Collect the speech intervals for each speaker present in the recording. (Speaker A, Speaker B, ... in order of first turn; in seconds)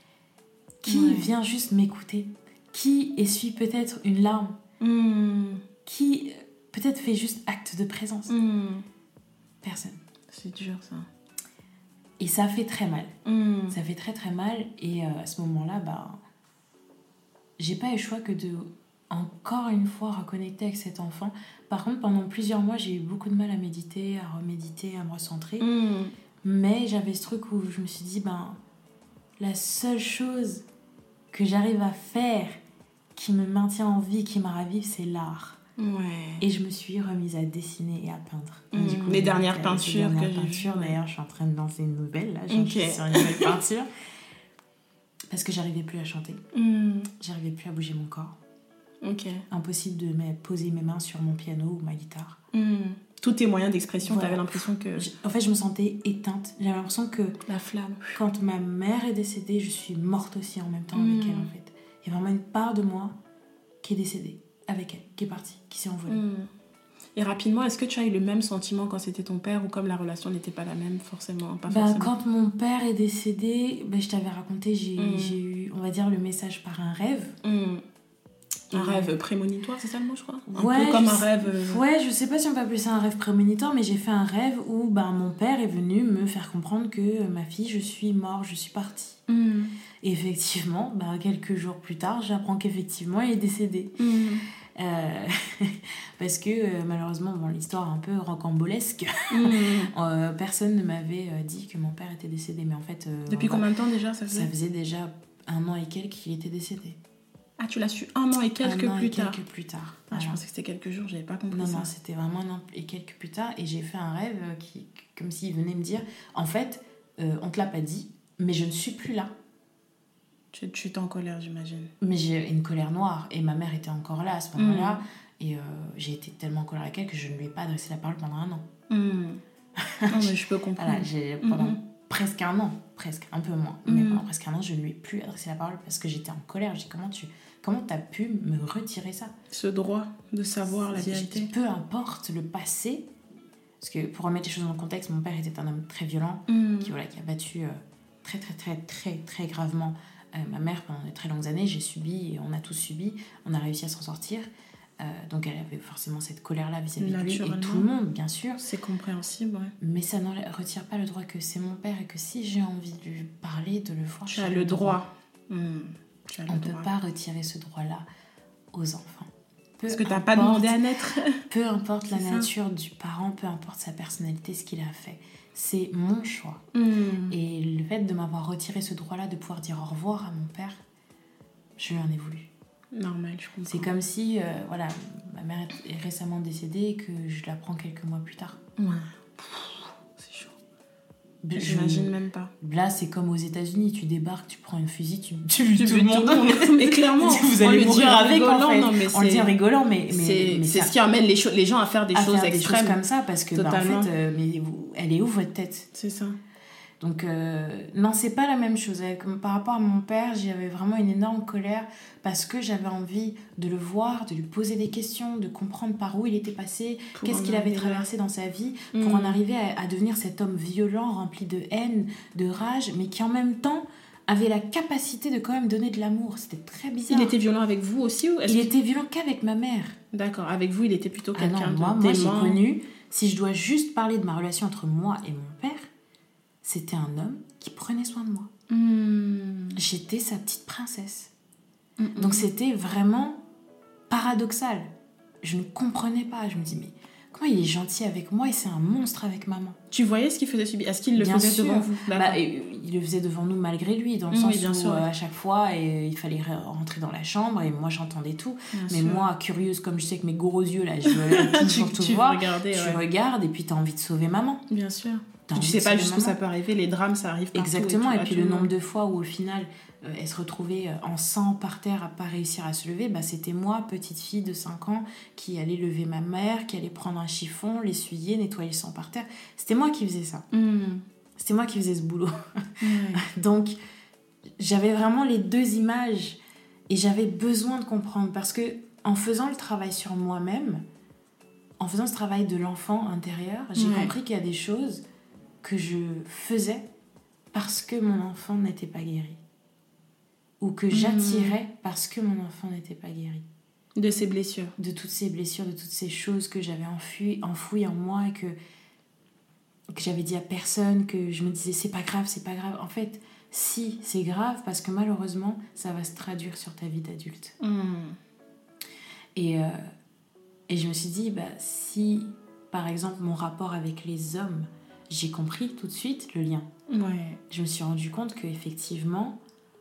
Speaker A: 0.8-4.6, 5.8-8.3, 9.6-10.0, 12.2-13.1, 13.7-16.2, 17.6-25.7, 26.4-28.6, 29.4-30.6, 31.3-32.6, 33.1-35.6, 36.4-43.9, 45.3-46.4, 47.2-48.4, 49.5-52.4, 54.0-57.4, 58.1-63.1, 63.8-66.2, 71.7-77.4, 78.7-79.1, 80.5-89.2, 90.0-93.9, 94.8-103.7, 104.3-107.0, 108.6-110.4, 111.5-119.3, 122.0-128.6, 129.8-139.3, 140.7-143.1, 143.8-154.5, 155.0-158.6, 159.8-165.0, 166.5-168.1, 168.7-170.8, 171.5-176.6, 177.3-180.8, 181.8-182.5, 183.7-188.6, 191.4-200.9, 202.1-205.9, 207.0-227.3, 228.5-230.0, 231.3-235.9, 236.6-238.5, 239.8-241.3, 242.2-243.4, 244.1-244.9, 245.4-249.8, 251.2-264.6, 265.5-266.4, 267.5-280.4, 281.4-283.8, 284.6-290.8, 291.8-295.0, 295.6-296.9, 297.5-299.4, 300.6-303.4, 304.8-308.6, 309.9-317.5, 319.3-319.8, 320.7-326.7, 327.5-329.4
Speaker B: 0.9-1.3, 4.8-5.6, 8.3-8.8, 10.3-11.1, 13.2-13.8, 25.6-26.1, 35.8-36.5, 38.7-41.0, 42.5-43.5, 46.5-47.1, 49.0-49.4, 52.5-55.1, 57.5-58.1, 60.9-61.5, 66.1-66.5, 67.2-72.1, 75.0-75.4, 77.4-77.8, 78.7-81.8, 89.3-89.7, 94.0-94.4, 99.3-99.9, 103.3-104.5, 107.6-109.4, 110.1-111.9, 120.5-121.9, 124.5-125.0, 128.9-129.4, 130.1-131.8, 133.9-134.2, 139.5-141.5, 146.5-146.9, 157.0-157.9, 158.6-159.7, 164.3-166.9, 169.9-171.4, 172.1-172.5, 176.7-177.4, 182.9-183.9, 188.8-190.5, 191.6-192.5, 195.7-199.5, 200.1-203.0, 203.5-204.1, 205.9-206.4, 217.1-218.1, 218.9-219.4, 227.1-228.7, 230.1-232.6, 238.7-239.8, 242.0-242.5, 249.9-252.4, 254.3-255.1, 258.7-259.3, 261.1-263.0, 264.7-268.7, 280.5-281.0, 282.8-283.2, 293.8-294.1, 300.9-301.6, 304.0-304.7, 317.6-318.2, 326.9-327.4